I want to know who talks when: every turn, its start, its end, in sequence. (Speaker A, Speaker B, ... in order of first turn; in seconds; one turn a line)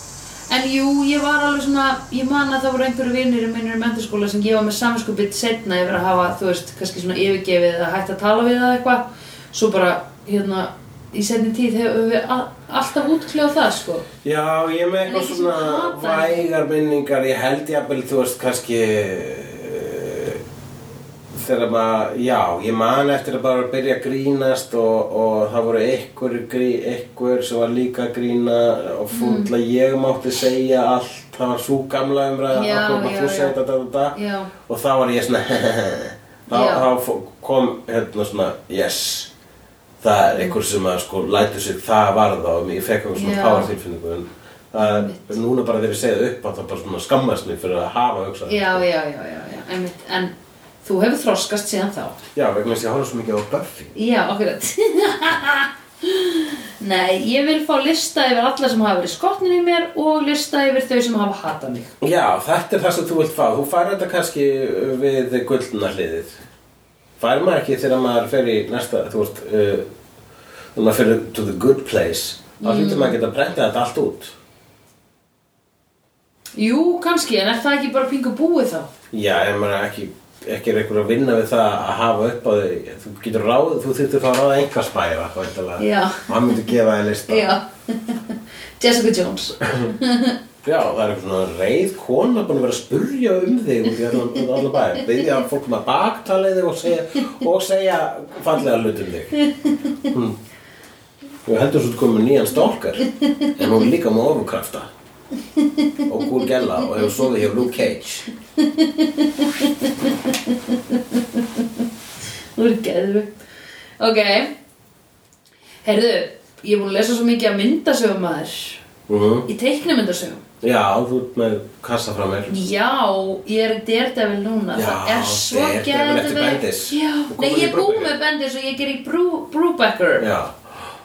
Speaker A: 0.5-14.1
Speaker B: 14.2-20.4
Speaker A: 15.1-16.4
Speaker B: 21.3-39.3
Speaker A: 29.1-29.5
Speaker A: 32.5-33.5
Speaker A: 34.1-34.5
Speaker A: 36.5-36.9
Speaker B: 40.0-48.8
Speaker A: 43.1-43.7
Speaker A: 44.8-45.4
Speaker A: 48.5-52.2
Speaker B: 52.4-53.9
Speaker A: 54.0-61.9
Speaker B: 62.0-66.4
Speaker B: 67.2-69.8
Speaker B: 70.7-74.3
Speaker A: 72.6-73.2
Speaker A: 76.5-78.9
Speaker B: 79.1-87.5
Speaker A: 85.8-86.7
Speaker A: 87.3-88.2
Speaker A: 88.8-90.4
Speaker B: 90.6-99.3
Speaker B: 100.0-100.4
Speaker B: 101.5-104.9
Speaker A: 105.6-106.2
Speaker B: 106.1-108.3
Speaker A: 108.6-111.8
Speaker A: 112.6-113.3
Speaker A: 114.0-114.5
Speaker A: 115.8-118.8
Speaker B: 119.1-119.5
Speaker A: 119.5-120.4
Speaker B: 120.6-122.5
Speaker A: 122.5-130.3
Speaker B: 124.7-128.1
Speaker B: 130.2-130.6